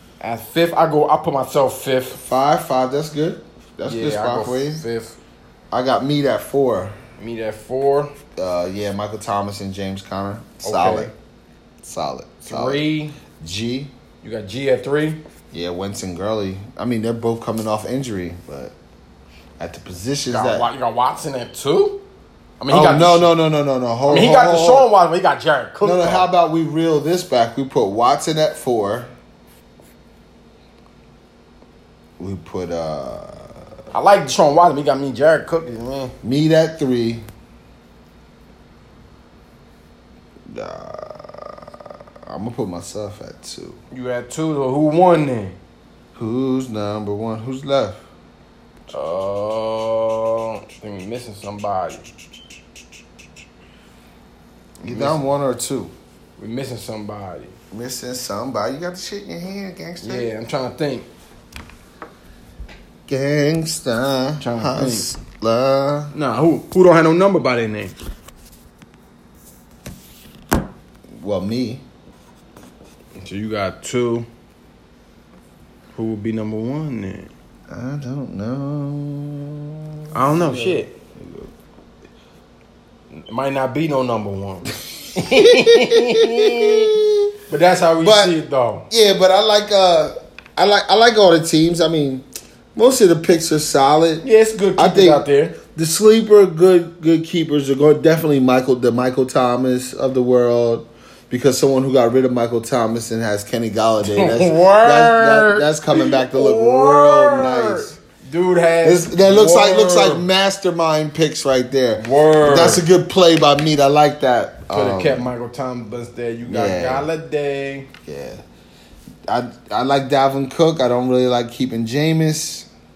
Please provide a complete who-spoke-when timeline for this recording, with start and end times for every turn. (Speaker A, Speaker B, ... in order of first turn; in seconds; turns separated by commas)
Speaker A: 0.2-2.2, Speaker B: 2.2-4.8, Speaker A: 3.9-5.2, Speaker B: 5.7-7.0, Speaker A: 7.2-8.1, Speaker B: 8.4-11.1, Speaker A: 10.6-11.1, Speaker B: 11.8-12.8, Speaker A: 12.5-13.2, Speaker B: 13.4-13.9, Speaker A: 14.2-15.2, Speaker B: 15.5-18.7, Speaker B: 19.6-20.7, Speaker A: 20.3-22.0, Speaker A: 22.6-23.3, Speaker B: 22.7-24.9, Speaker A: 24.1-26.3, Speaker B: 25.8-29.1, Speaker B: 32.2-33.6, Speaker A: 33.9-36.1, Speaker B: 36.2-37.2, Speaker B: 40.5-43.8, Speaker A: 43.9-45.6, Speaker B: 46.1-48.0, Speaker A: 48.9-52.1, Speaker A: 54.8-55.2, Speaker B: 54.8-55.9, Speaker A: 56.4-57.5, Speaker B: 57.7-60.3, Speaker A: 60.0-61.1, Speaker B: 63.1-66.1, Speaker A: 64.4-65.1, Speaker A: 66.1-67.9, Speaker B: 71.2-71.8, Speaker A: 73.2-74.3, Speaker A: 76.0-77.3, Speaker B: 77.7-81.5, Speaker A: 80.1-80.9, Speaker A: 83.1-86.9, Speaker B: 85.2-87.3, Speaker A: 87.5-88.9, Speaker B: 88.0-88.3, Speaker B: 88.9-94.2, Speaker A: 94.2-95.6, Speaker B: 94.8-108.0, Speaker A: 104.0-110.3, Speaker B: 108.8-115.3, Speaker A: 112.0-112.8, Speaker A: 114.7-117.9, Speaker B: 116.5-117.1, Speaker B: 118.1-118.4, Speaker B: 119.3-122.7